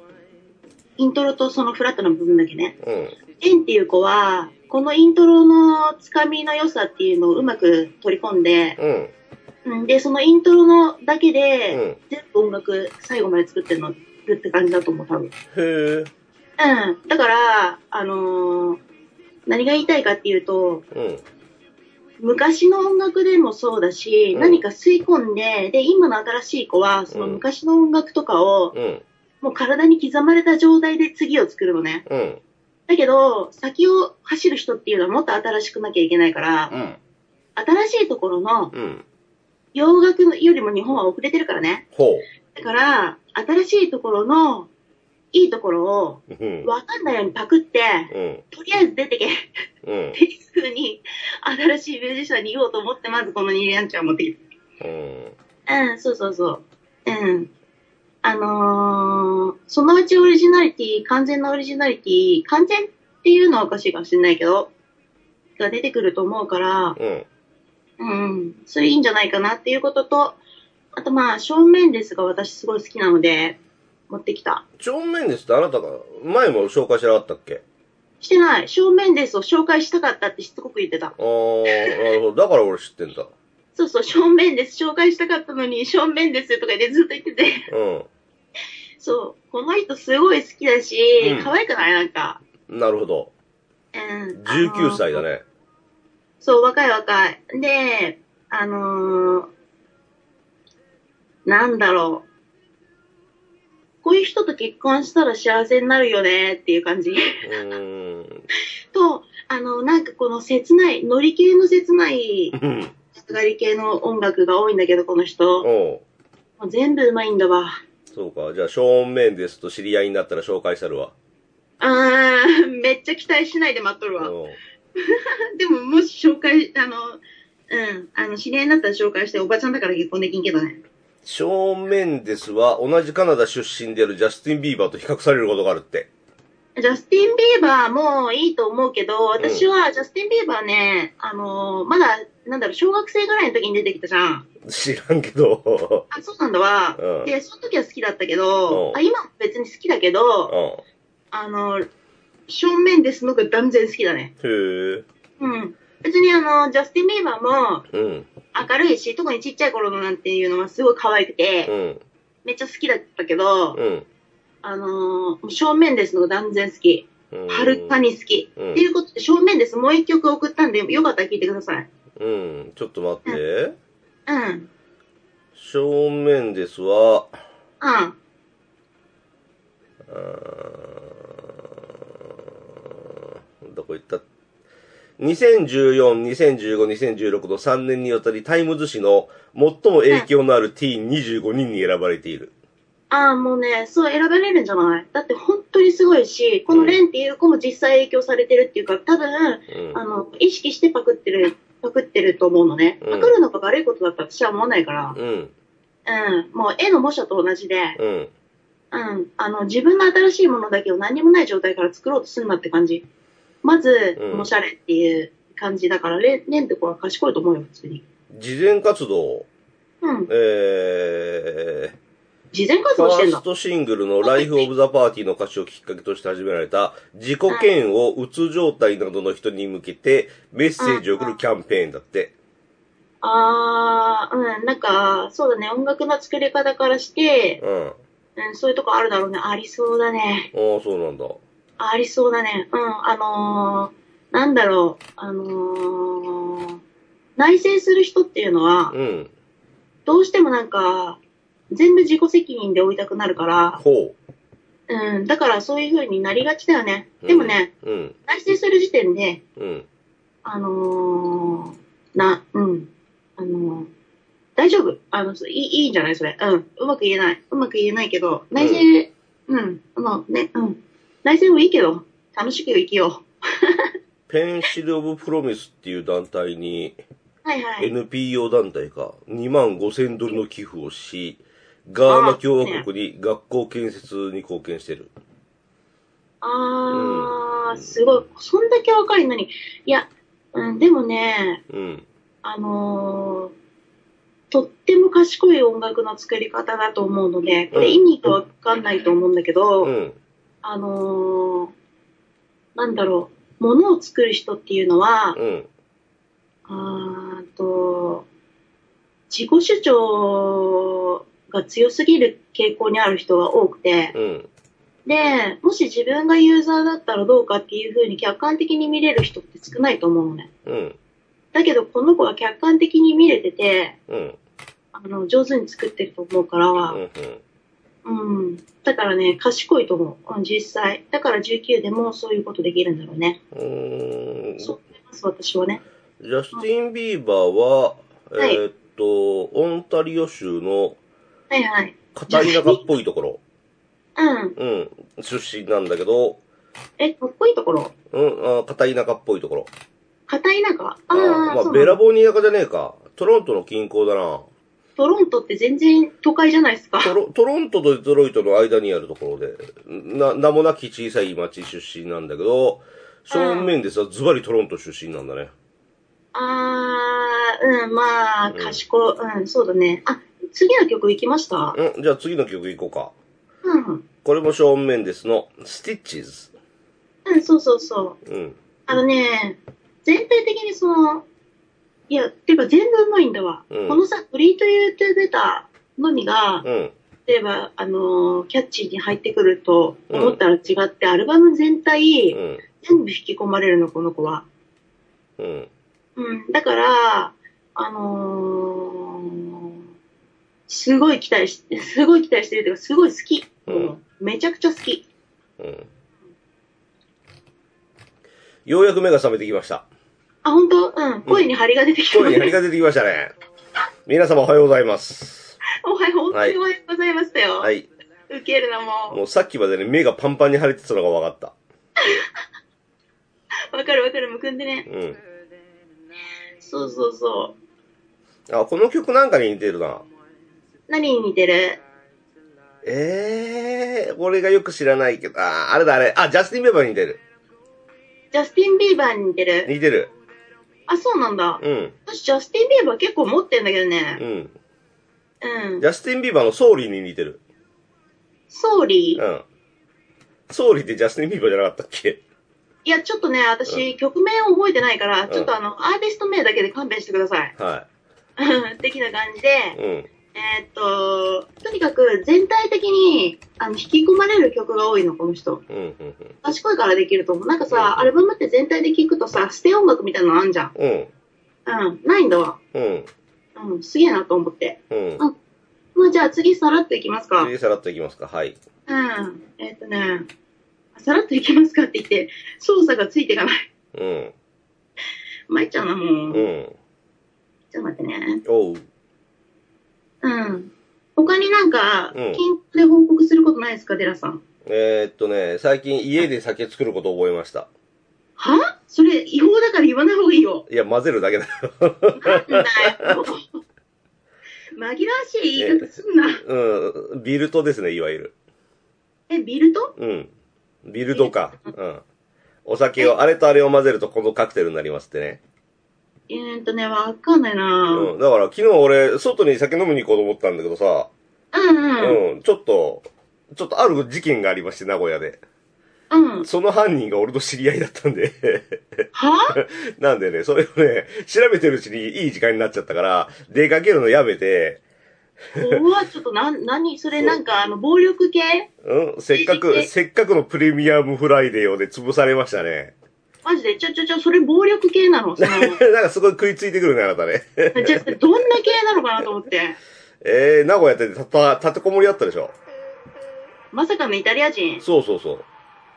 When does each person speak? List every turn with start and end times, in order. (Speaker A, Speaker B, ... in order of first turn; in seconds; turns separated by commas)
Speaker A: 1.0-2.8, Speaker B: 2.8-3.1, Speaker A: 3.4-8.8, Speaker B: 8.8-9.1, Speaker A: 9.6-15.3, Speaker B: 11.7-12.0, Speaker B: 15.5-16.1, Speaker A: 16.6-18.8, Speaker A: 19.5-20.8, Speaker B: 20.9-21.2, Speaker A: 22.2-28.7, Speaker B: 24.3-24.6, Speaker B: 27.1-27.4, Speaker B: 28.7-29.0, Speaker A: 29.4-32.0, Speaker B: 32.1-32.4, Speaker A: 32.9-36.7, Speaker B: 36.7-37.0, Speaker A: 37.5-38.7, Speaker B: 38.7-39.0, Speaker A: 39.7-41.9, Speaker B: 41.9-42.2, Speaker A: 42.5-44.7, Speaker A: 45.3-49.5, Speaker B: 46.3-46.7, Speaker B: 48.1-48.4, Speaker B: 49.8-50.2, Speaker A: 50.1-54.4, Speaker B: 54.8-55.3, Speaker A: 55.7-57.5, Speaker A: 58.2-64.7, Speaker A: 65.6-67.0, Speaker B: 67.0-67.2, Speaker A: 68.0-70.4, Speaker A: 70.9-74.6, Speaker B: 74.8-77.6, Speaker A: 78.2-81.1, Speaker B: 81.2-83.3, Speaker A: 81.7-82.0, Speaker A: 83.7-87.7, Speaker B: 87.7-88.1, Speaker A: 89.0-92.4, Speaker B: 91.2-91.5, Speaker B: 92.7-93.3, Speaker A: 93.9-95.2, Speaker B: 94.3-95.4, Speaker A: 96.4-99.5, Speaker A: 101.5-102.2, Speaker A: 104.0-107.6, Speaker B: 107.4-108.4, Speaker A: 108.9-112.5, Speaker B: 112.5-112.9, Speaker A: 113.1-115.7, Speaker B: 115.6-116.0, Speaker A: 116.6-117.8, Speaker B: 118.1-121.1, Speaker A: 121.8-124.3, Speaker B: 124.2-124.6, Speaker A: 125.0-130.8, Speaker B: 131.2-136.1, Speaker A: 136.8-144.5, Speaker B: 139.4-139.7, Speaker B: 144.6-146.1, Speaker A: 146.1-150.5, Speaker B: 147.0-147.3, Speaker B: 148.7-149.0, Speaker B: 150.5-150.8, Speaker A: 151.3-151.9, Speaker A: 152.5-154.3, Speaker B: 154.4-155.0, Speaker A: 155.4-157.8, Speaker B: 157.9-158.3, Speaker A: 158.5-161.7, Speaker B: 161.7-162.0, Speaker A: 162.4-163.8, Speaker B: 163.7-164.1, Speaker A: 164.6-171.9, Speaker B: 167.3-168.0, Speaker B: 168.6-168.8, Speaker B: 172.2-173.7, Speaker A: 174.3-174.7, Speaker B: 175.5-177.4, Speaker A: 177.8-178.2, Speaker B: 180.1-181.5, Speaker B: 182.2-184.2, Speaker B: 185.2-192.5, Speaker A: 193.1-205.2, Speaker B: 196.7-197.0, Speaker B: 199.7-200.0, Speaker B: 203.0-203.3, Speaker B: 205.1-205.5, Speaker A: 206.1-208.0, Speaker B: 208.0-208.3, Speaker A: 208.9-213.0, Speaker A: 213.6-218.0, Speaker B: 214.2-214.5, Speaker B: 218.3-219.5, Speaker A: 220.0-220.3, Speaker B: 220.3-221.9, Speaker A: 222.5-223.4, Speaker B: 223.0-232.3, Speaker A: 224.2-224.7, Speaker A: 230.8-231.4, Speaker A: 233.2-237.6, Speaker B: 237.6-238.0, Speaker A: 238.4-240.5, Speaker B: 240.5-241.4, Speaker A: 241.8-246.8, Speaker A: 247.4-248.9, Speaker B: 248.9-249.3, Speaker A: 250.1-251.2, Speaker A: 251.7-253.8, Speaker B: 253.8-254.2, Speaker A: 254.9-257.7, Speaker B: 257.2-258.1, Speaker A: 258.3-259.4, Speaker B: 259.6-259.9, Speaker A: 260.4-263.9, Speaker A: 264.6-273.9, Speaker B: 268.6-268.9, Speaker B: 274.3-277.0, Speaker A: 277.4-277.9, Speaker B: 277.8-285.1, Speaker A: 282.1-282.9, Speaker A: 286.4-291.6, Speaker B: 286.9-287.3, Speaker B: 291.7-292.0, Speaker A: 292.4-293.5, Speaker A: 294.5-299.9, Speaker B: 297.7-298.0, Speaker B: 299.8-300.1, Speaker A: 300.6-301.7, Speaker A: 302.8-305.4, Speaker B: 305.3-305.7, Speaker A: 306.7-308.2, Speaker A: 309.3-314.1, Speaker B: 314.1-314.5, Speaker A: 315.1-320.5, Speaker B: 320.6-321.0, Speaker A: 321.5-324.0, Speaker B: 324.1-324.4, Speaker A: 324.9-327.0, Speaker B: 326.9-327.4, Speaker A: 328.0-333.4, Speaker B: 333.5-334.7, Speaker A: 334.6-335.8, Speaker B: 336.2-341.0, Speaker A: 341.5-342.8, Speaker B: 342.1-343.4, Speaker A: 344.1-344.6, Speaker B: 344.6-346.4, Speaker A: 347.0-347.9, Speaker B: 348.1-349.7, Speaker A: 350.3-352.0, Speaker B: 351.1-354.4, Speaker A: 355.0-357.1, Speaker B: 357.0-365.5, Speaker A: 363.3-363.7, Speaker A: 366.3-371.8, Speaker B: 368.5-368.8, Speaker B: 371.7-373.1, Speaker A: 373.6-374.0, Speaker B: 374.2-376.5, Speaker A: 377.2-378.2, Speaker B: 378.2-378.6, Speaker A: 378.9-381.2, Speaker A: 382.1-386.6, Speaker B: 383.7-384.0, Speaker B: 386.6-386.9, Speaker A: 387.3-394.4, Speaker B: 390.1-390.4, Speaker B: 392.3-392.6, Speaker B: 395.4-395.7, Speaker A: 396.1-399.6, Speaker A: 400.7-405.1, Speaker B: 403.7-403.9, Speaker B: 405.6-405.9, Speaker B: 408.6-409.9, Speaker A: 410.4-412.6, Speaker B: 412.1-413.3, Speaker B: 414.1-415.6, Speaker A: 415.8-417.7, Speaker B: 417.6-417.9, Speaker A: 418.3-419.2, Speaker B: 419.1-421.5, Speaker A: 423.7-424.9, Speaker B: 424.9-425.2, Speaker A: 426.6-427.5, Speaker B: 428.5-430.1, Speaker A: 430.9-431.8, Speaker B: 432.8-437.2, Speaker A: 438.3-439.7, Speaker B: 439.6-440.1, Speaker A: 440.9-444.2, Speaker B: 441.6-441.9, Speaker B: 444.2-444.5, Speaker A: 445.4-445.9, Speaker B: 445.8-447.4, Speaker A: 448.5-449.2, Speaker B: 449.2-449.4, Speaker B: 450.5-452.2, Speaker A: 452.8-457.5, Speaker B: 457.6-457.9, Speaker A: 458.4-459.8, Speaker B: 459.7-460.1, Speaker A: 460.3-465.6, Speaker B: 465.7-466.4, Speaker A: 466.4-470.7, Speaker B: 467.7-468.1, Speaker B: 470.7-471.1, Speaker A: 471.6-472.6, Speaker B: 472.7-473.1, Speaker A: 473.6-475.3, Speaker B: 474.9-475.2, Speaker A: 475.9-477.5, Speaker B: 477.4-478.6, Speaker A: 478.9-480.3, Speaker A: 480.9-483.7, Speaker B: 483.9-484.3, Speaker A: 485.5-486.5, Speaker B: 486.3-486.8, Speaker A: 487.7-488.4, Speaker B: 488.4-488.8, Speaker A: 490.2-494.4, Speaker B: 492.1-492.4, Speaker B: 494.6-497.7, Speaker A: 498.4-500.6, Speaker B: 500.7-503.1, Speaker A: 502.2-503.6, Speaker A: 504.8-506.4, Speaker B: 505.6-508.3, Speaker A: 509.3-509.9, Speaker B: 510.0-510.3, Speaker B: 510.8-512.0, Speaker A: 511.1-511.7, Speaker B: 512.6-515.4, Speaker A: 516.3-518.1, Speaker B: 517.9-521.1, Speaker A: 521.5-522.2, Speaker B: 522.0-525.4, Speaker A: 526.1-526.5, Speaker B: 526.4-534.8, Speaker A: 529.1-529.6, Speaker B: 535.5-535.8, Speaker A: 535.5-538.7, Speaker B: 538.8-542.9, Speaker A: 539.3-539.9, Speaker A: 543.4-545.8, Speaker B: 545.4-548.5, Speaker A: 547.7-549.8, Speaker B: 550.2-552.5, Speaker A: 553.7-554.8, Speaker B: 554.8-555.5